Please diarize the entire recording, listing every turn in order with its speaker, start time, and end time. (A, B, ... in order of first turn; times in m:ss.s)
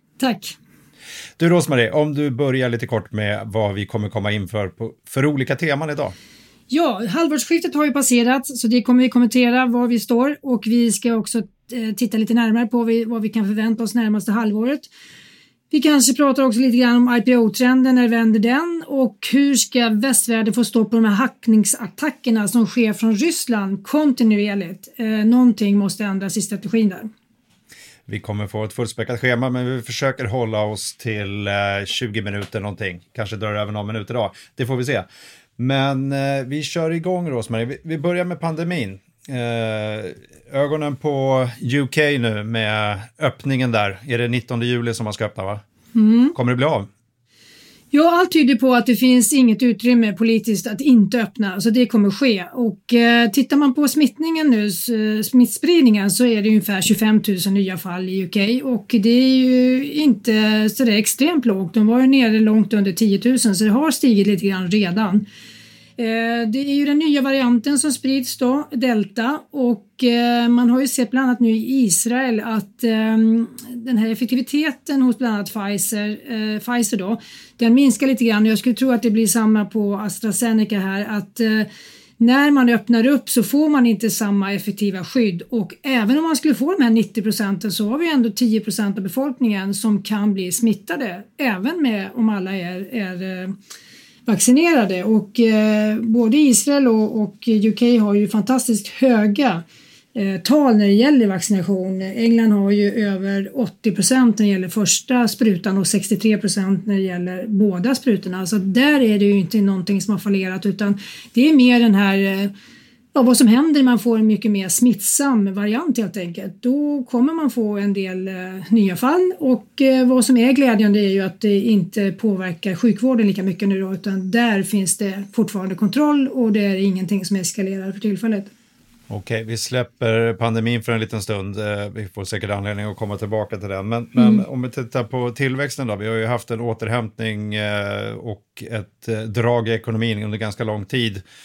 0:00.2-0:00.6 A
0:01.4-0:06.1 B
0:06.7-0:14.9 A
0:15.7-0:27.1 A
0:28.1-0:35.0 B
0:35.6-0:45.6 B
0:45.9-0:46.3 A
0:46.3-0:46.9 B
0:47.9-1:05.2 A
1:06.0-1:21.7 A
1:22.2-1:33.6 A
1:34.2-1:52.5 A
1:53.1-2:08.5 A
2:09.1-2:21.2 B
2:14.2-2:14.4 A